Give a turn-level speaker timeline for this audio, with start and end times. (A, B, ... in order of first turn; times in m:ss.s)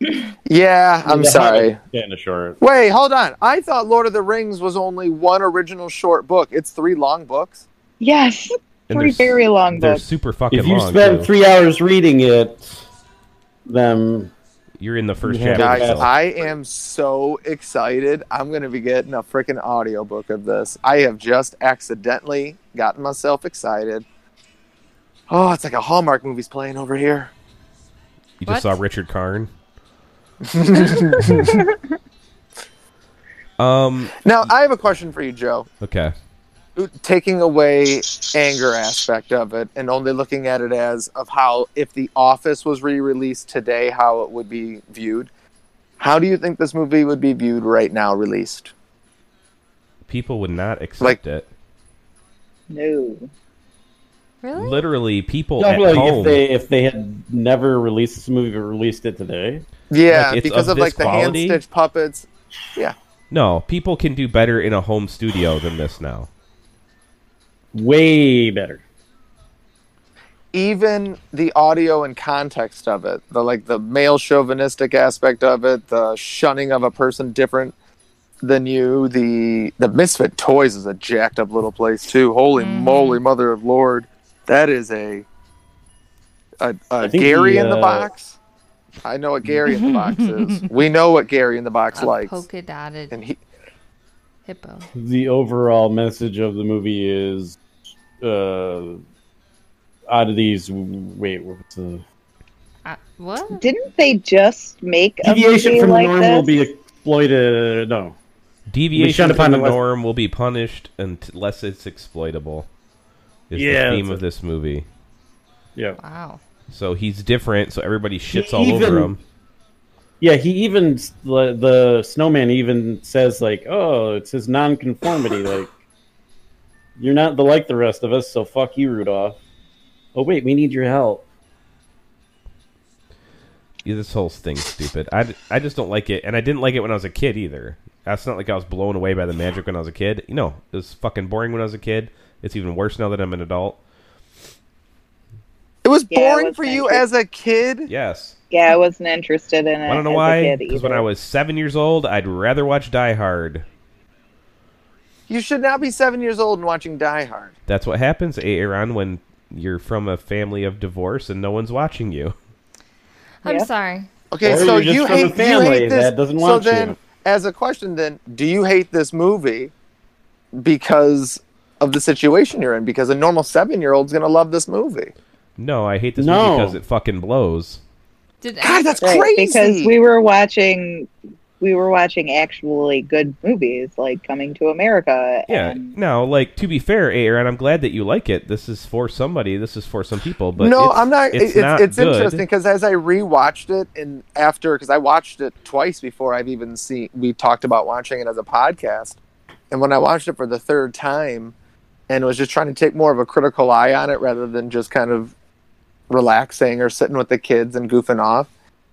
0:00.5-0:01.8 A
0:01.0-0:02.6 B
0:02.6-0:07.6 A
0:08.0-0:10.0 C
0:08.9-0:11.3 D
0:10.5-0:12.8 B
0:13.7-0:14.3 B
0:14.8-0:16.1 D
0:15.2-0:16.1 B
0:15.6-0:24.0 A
0:25.3-0:27.3 A
0:28.4-0:29.5 D
0:28.5-0:28.8 E
0:30.4-0:31.7 A
0:31.5-0:31.7 C
0:33.6-0:34.2 D
0:34.2-0:35.7 A
0:35.8-0:36.1 D
0:36.8-0:45.3 A
0:46.0-0:48.7 A
0:50.1-0:51.5 D
0:52.7-0:53.3 C
0:54.4-0:54.8 E
0:54.6-0:56.4 D
0:55.6-0:59.6 B
0:59.9-1:03.0 A
1:00.1-1:01.6 D
1:03.3-1:06.3 D
1:07.7-1:08.8 B
1:10.5-1:17.7 A
1:18.4-1:25.3 A
1:22.6-1:23.2 E
1:26.6-1:28.4 A
1:27.0-1:28.1 B
1:29.0-1:32.4 A
1:29.7-1:30.7 E
1:31.9-1:33.2 E
1:33.1-1:33.4 A
1:34.5-1:34.9 E
1:35.0-1:37.6 B
1:38.2-1:39.0 B
1:40.1-1:42.0 B
1:42.8-1:43.6 E
1:43.5-1:46.5 C
1:45.2-1:48.2 B
1:48.7-1:52.7 D
1:49.0-1:49.8 B
1:53.5-1:54.9 D
1:53.6-1:54.2 B
1:56.0-1:56.4 E
1:56.7-1:59.2 D
1:58.3-1:59.2 B
2:00.2-2:05.7 B
2:07.0-2:09.4 B
2:10.2-2:11.2 B
2:13.8-2:23.8 D
2:25.8-2:27.9 A
2:26.1-2:27.1 C
2:27.9-2:28.4 D
2:28.5-2:31.1 C
2:29.9-2:33.6 D
2:35.3-2:37.5 A
2:37.7-2:42.4 D
2:43.4-2:44.1 E
2:44.3-2:49.7 A
2:44.4-2:47.0 B
2:50.5-2:55.1 A
2:55.6-2:57.8 D
2:56.2-2:56.8 B
2:58.4-2:59.2 E
2:58.6-3:00.0 A
2:59.0-3:06.0 C
3:05.5-3:12.4 D
3:10.6-3:19.2 A
3:19.7-3:21.5 A
3:22.1-3:25.3 A
3:26.1-3:28.5 A